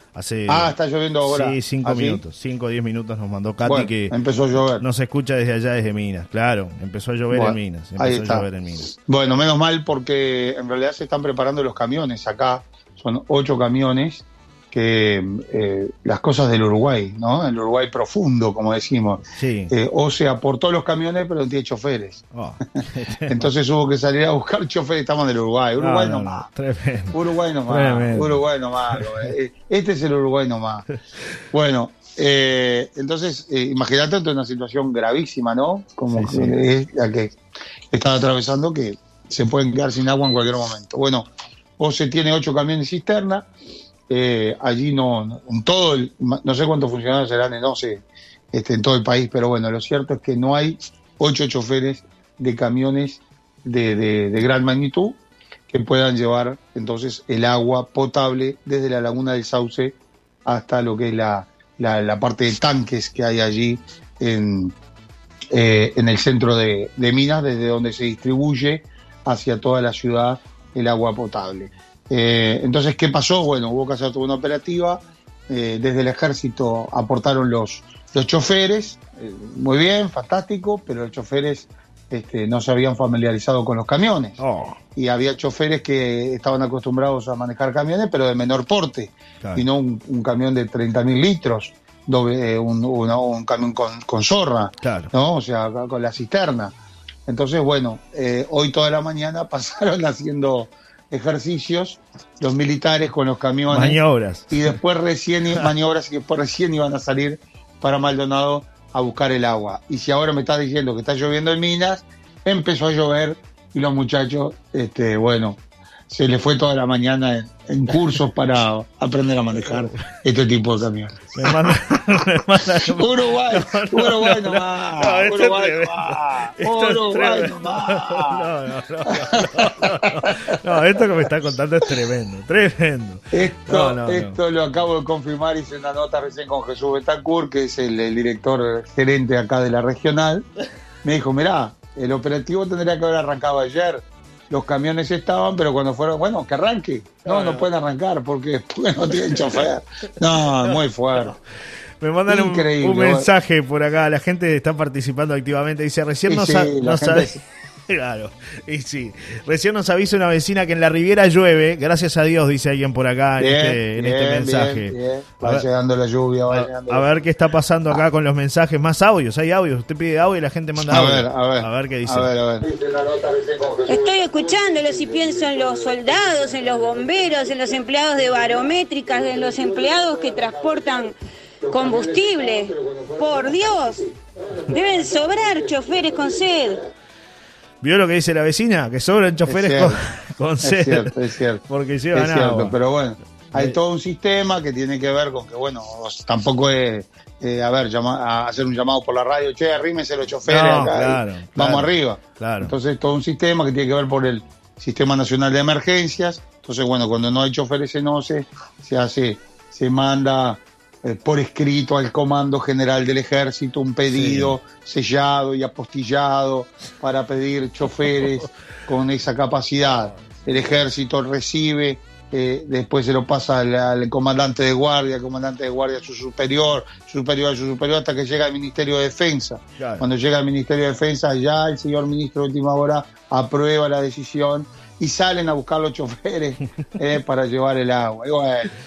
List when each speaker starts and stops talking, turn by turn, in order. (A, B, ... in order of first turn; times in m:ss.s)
0:00.1-0:04.1 A
0:00.5-0:02.2 B
0:03.6-0:04.8 B
0:04.8-0:08.9 A
0:07.3-0:08.4 B
0:09.0-0:22.2 B
0:19.4-0:19.7 A
0:22.3-0:23.5 A
0:23.3-0:26.5 B
0:25.8-0:27.1 A
0:27.1-0:30.9 B
0:27.7-0:28.4 A
0:31.5-0:37.4 B
0:36.1-0:36.6 A
0:37.9-0:43.5 B
0:44.1-1:04.7 B
1:05.5-1:24.4 B
1:24.4-1:24.8 A
1:25.0-1:36.7 B
1:34.8-1:35.1 A
1:37.3-1:44.0 B
1:43.7-1:44.7 A
1:44.5-2:01.8 B
2:01.3-2:14.4 A
2:02.8-2:08.5 B
2:09.2-2:10.3 B
2:13.3-2:20.4 B
2:21.0-2:31.4 B
2:27.2-2:27.6 A
2:32.0-2:37.3 A
2:32.3-2:33.3 B
2:36.3-2:37.4 B
2:37.9-2:45.6 A
2:43.4-2:47.1 B
2:46.5-2:52.3 A
2:50.8-2:52.7 B
2:53.8-3:01.1 C
3:01.7-3:04.0 C
3:04.7-3:06.8 C
3:07.8-3:11.1 A
3:09.4-3:10.0 B
3:10.6-3:11.6 B
3:11.7-3:12.8 A
3:12.1-3:58.7 B
3:20.5-3:22.7 A
3:34.1-3:34.6 A
3:49.8-3:50.0 A